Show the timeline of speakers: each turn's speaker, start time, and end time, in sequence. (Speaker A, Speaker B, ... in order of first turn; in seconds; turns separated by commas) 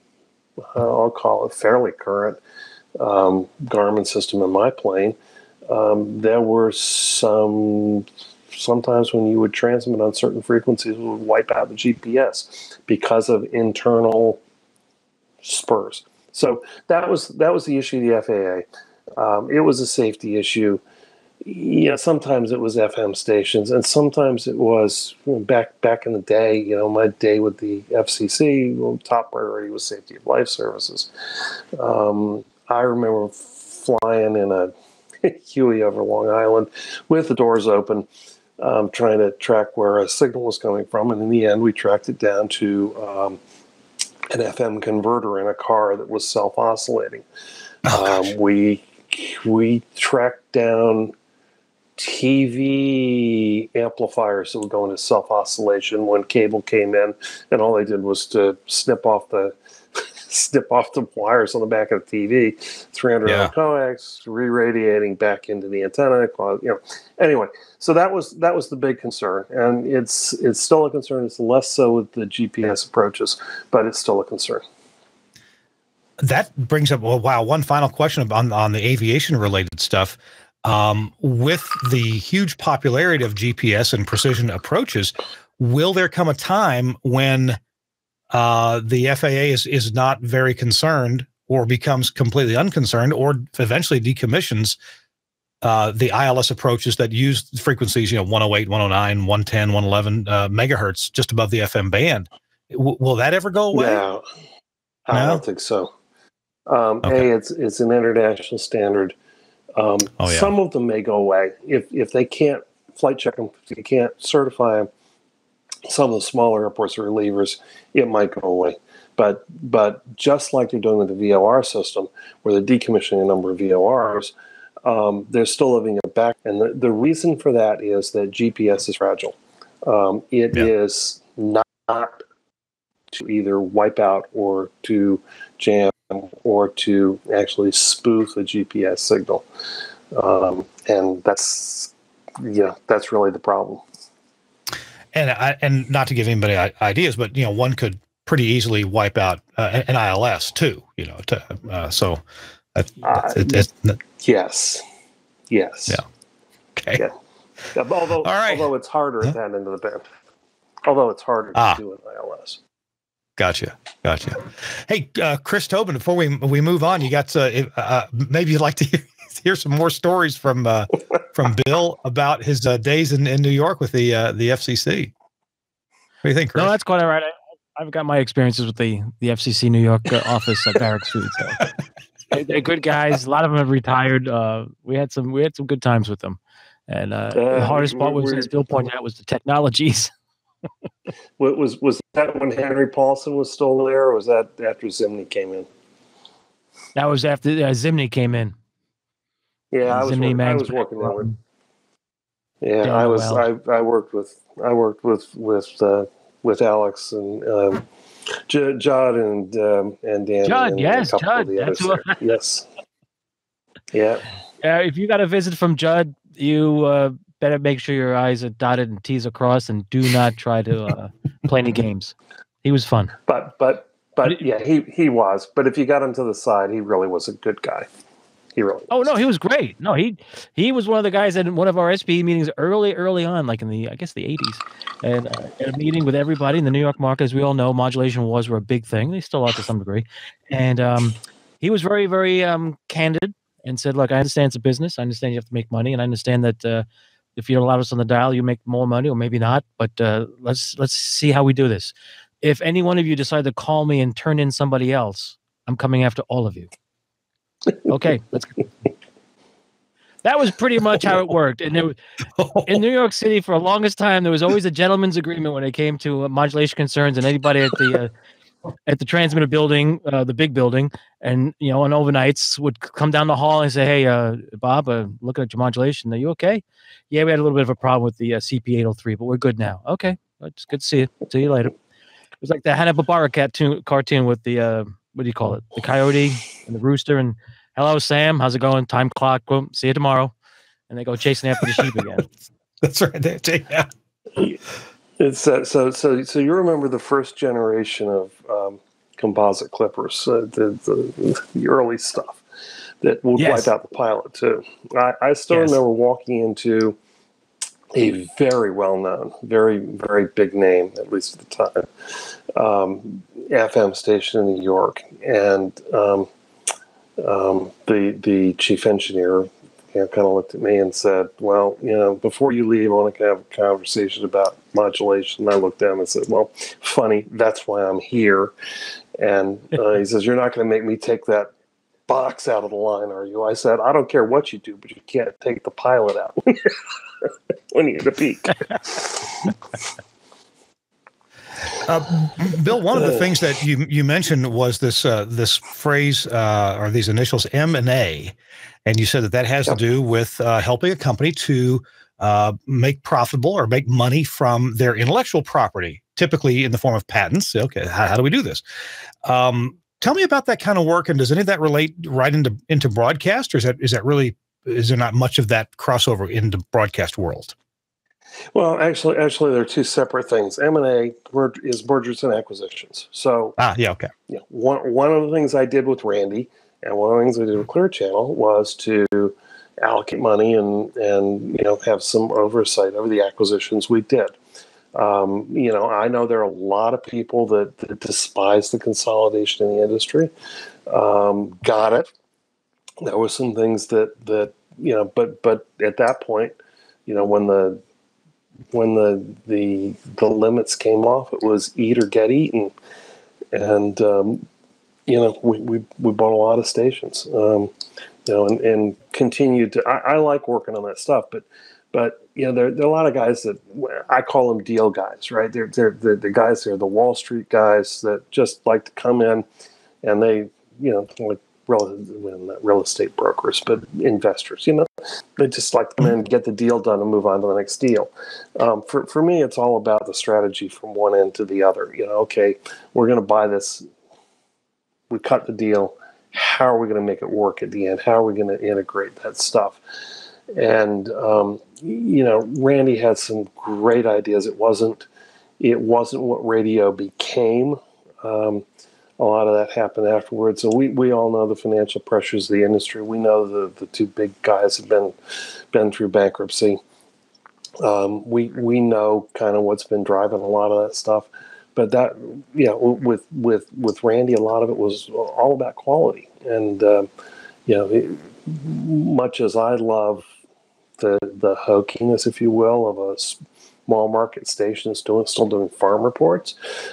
Speaker A: 0.6-2.4, Speaker A: 3.0-5.2, Speaker A: 5.7-14.4, Speaker A: 15.4-18.6, Speaker A: 19.2-20.8, Speaker A: 21.4-38.1, Speaker A: 38.6-43.4, Speaker A: 44.3-47.2, Speaker B: 47.8-48.3, Speaker A: 47.9-51.1, Speaker A: 52.0-74.6, Speaker B: 63.2-63.5, Speaker B: 76.2-87.6, Speaker B: 88.3-94.8, Speaker B: 95.6-104.0, Speaker A: 103.7-104.2, Speaker A: 105.1-105.9, Speaker B: 105.1-105.4, Speaker A: 106.7-109.2, Speaker A: 109.8-114.9, Speaker B: 110.2-110.5, Speaker A: 115.8-124.3, Speaker A: 124.8-132.2, Speaker A: 133.1-139.4, Speaker A: 140.1-143.8, Speaker B: 145.1-152.2, Speaker B: 152.7-154.0, Speaker A: 153.0-153.7, Speaker A: 154.2-154.8, Speaker A: 155.5-156.0, Speaker B: 156.8-157.0, Speaker A: 157.7-160.0, Speaker B: 158.2-158.7, Speaker A: 160.8-162.6, Speaker B: 161.5-161.8, Speaker B: 163.4-175.1, Speaker B: 176.2-176.7, Speaker C: 176.6-181.6, Speaker C: 182.3-190.1, Speaker A: 187.3-188.5, Speaker A: 191.4-195.7, Speaker C: 196.9-198.5, Speaker A: 199.7-201.3, Speaker C: 199.9-201.3, Speaker A: 202.6-207.8, Speaker C: 202.8-203.4, Speaker A: 208.5-212.7, Speaker C: 210.4-212.2, Speaker A: 213.9-214.2, Speaker C: 214.6-223.1, Speaker A: 223.3-227.9, Speaker A: 228.6-228.9, Speaker C: 228.9-246.8, Speaker C: 247.4-256.7, Speaker C: 257.9-258.7, Speaker C: 260.2-261.9, Speaker B: 262.4-262.8, Speaker C: 262.7-268.1, Speaker C: 268.9-281.7, Speaker C: 282.4-290.3, Speaker C: 290.9-292.3, Speaker B: 292.8-293.9, Speaker A: 295.2-302.4, Speaker A: 303.0-307.0, Speaker C: 303.4-303.7, Speaker C: 305.5-305.8, Speaker A: 307.9-311.9, Speaker A: 312.5-316.3, Speaker A: 317.2-328.5, Speaker A: 329.2-331.5, Speaker A: 332.1-339.5, Speaker B: 341.8-348.3, Speaker A: 342.9-343.2, Speaker B: 348.9-358.6, Speaker B: 359.2-367.5, Speaker A: 368.5-373.6, Speaker B: 373.6-374.1, Speaker A: 374.3-384.4, Speaker A: 384.9-390.3, Speaker A: 390.9-392.1, Speaker A: 393.0-397.8, Speaker A: 398.7-402.7, Speaker A: 403.5-404.4, Speaker A: 405.1-407.7, Speaker A: 408.2-419.4, Speaker A: 420.0-433.9, Speaker A: 435.1-439.8, Speaker A: 440.5-445.1, Speaker A: 445.6-448.6, Speaker A: 449.2-456.8, Speaker A: 457.8-467.1, Speaker A: 467.6-470.2, Speaker A: 471.0-476.6